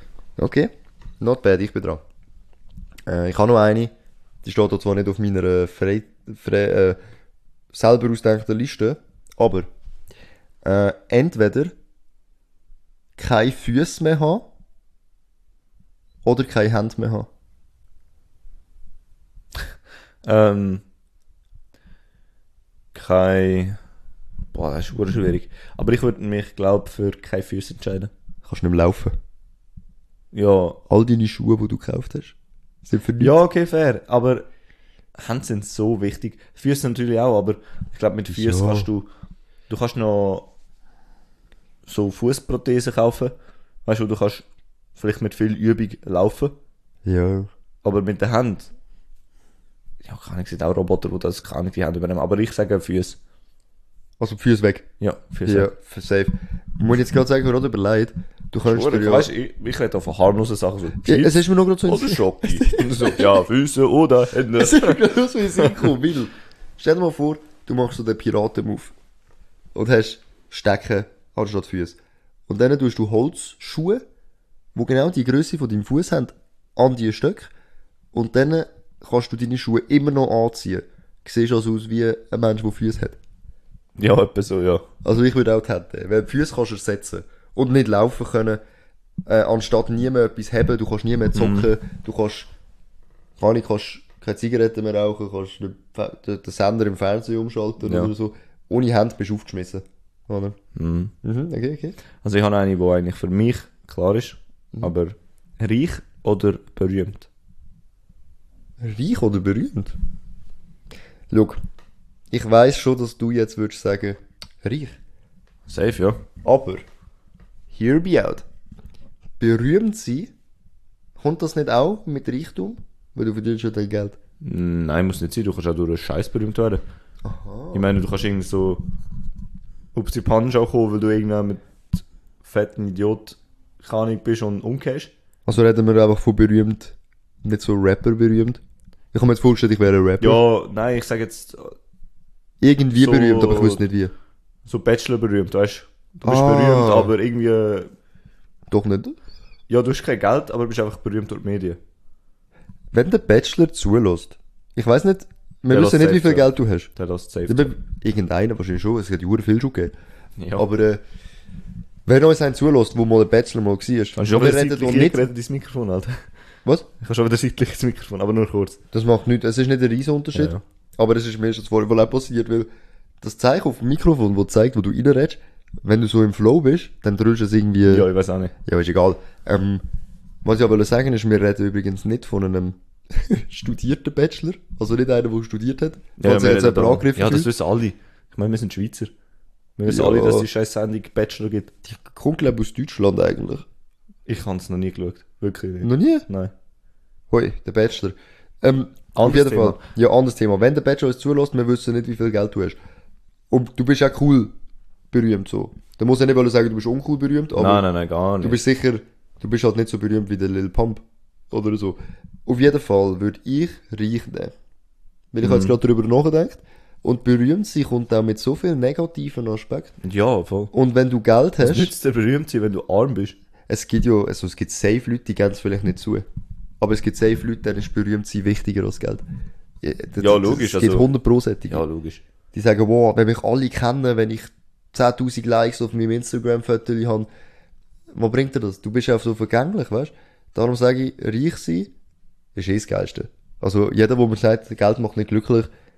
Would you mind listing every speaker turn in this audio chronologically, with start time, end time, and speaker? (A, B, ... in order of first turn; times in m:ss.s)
0:00.4-0:02.0 A
0:03.1-0:03.9 A
0:04.4-0:07.0 A
0:07.7-0:09.7 A
0:10.6-0:11.7 A
0:13.2-0:14.5 A
0:16.2-0:17.3 A
0:20.2-0:20.8 B
0:22.9-0:23.8 B
0:24.5-0:28.1 B
0:28.5-0:29.2 A
0:30.3-0:30.8 B
0:30.9-0:33.4 A
0:33.2-0:34.5 B
0:35.2-0:39.1 B
0:38.3-0:38.9 A
0:39.7-0:40.5 B
0:41.9-0:43.3 B
0:43.8-0:46.6 B
0:47.0-0:47.5 A
0:47.8-0:48.7 B
0:50.0-0:53.2 B
0:54.2-0:54.9 A
0:55.0-0:55.7 B
0:55.5-0:59.3 A
0:58.6-1:05.9 B
1:01.0-1:03.4 A
1:04.5-1:08.9 A
1:09.8-1:14.0 A
1:14.8-1:17.5 A
1:18.1-1:23.2 A
1:24.0-1:24.9 B
1:25.0-1:28.6 A
1:29.3-1:32.5 A
1:31.3-1:31.7 B
1:33.4-1:40.6 A
1:37.8-1:38.1 B
1:40.8-1:41.1 B
1:41.2-1:42.0 A
1:42.2-1:47.3 B
1:48.8-1:50.0 A
1:51.3-1:51.6 A
1:52.3-1:55.0 A
1:55.7-1:56.2 B
1:56.4-1:56.8 A
1:57.7-1:58.4 A
1:59.4-2:00.3 A
2:01.2-2:04.2 A
2:04.4-2:06.8 B
2:07.2-2:07.9 A
2:07.7-2:08.8 B
2:10.0-2:15.1 B
2:15.5-2:18.6 A
2:19.1-2:20.4 A
2:20.2-2:21.8 B
2:22.6-2:24.1 A
2:23.0-2:23.8 B
2:24.7-2:27.9 B
2:26.2-2:27.1 A
2:28.7-2:29.2 A
2:29.7-2:31.8 B
2:32.9-2:36.9 A
2:35.7-2:37.7 B
2:37.5-2:39.9 A
2:40.4-2:40.7 B
2:40.6-2:41.0 A
2:42.1-2:45.2 A
2:44.2-2:46.2 B
2:47.0-2:48.8 B
2:48.9-2:52.7 A
2:50.3-2:50.6 B
2:53.2-2:58.1 A
2:57.8-2:58.5 B
2:58.6-2:59.8 A
3:00.4-3:07.5 A
3:06.2-3:09.1 B
3:09.8-3:11.7 B
3:09.9-3:10.5 A
3:11.8-3:13.6 A
3:14.3-3:16.5 B
3:15.8-3:16.3 A
3:17.3-3:22.8 A
3:19.2-3:19.8 B
3:23.5-3:24.5 A
3:25.1-3:27.8 A
3:27.6-3:28.6 B
3:28.4-3:34.5 A
3:35.3-3:39.9 A
3:35.4-3:35.8 B
3:40.0-3:40.7 B
3:40.7-3:41.9 A
3:41.6-3:43.4 B
3:43.7-3:46.2 A
3:46.8-3:49.2 A
3:49.8-3:51.8 A
3:50.2-3:51.1 B
3:51.7-3:52.2 B
3:52.5-3:57.3 A
3:58.1-4:01.9 A
4:02.6-4:05.7 A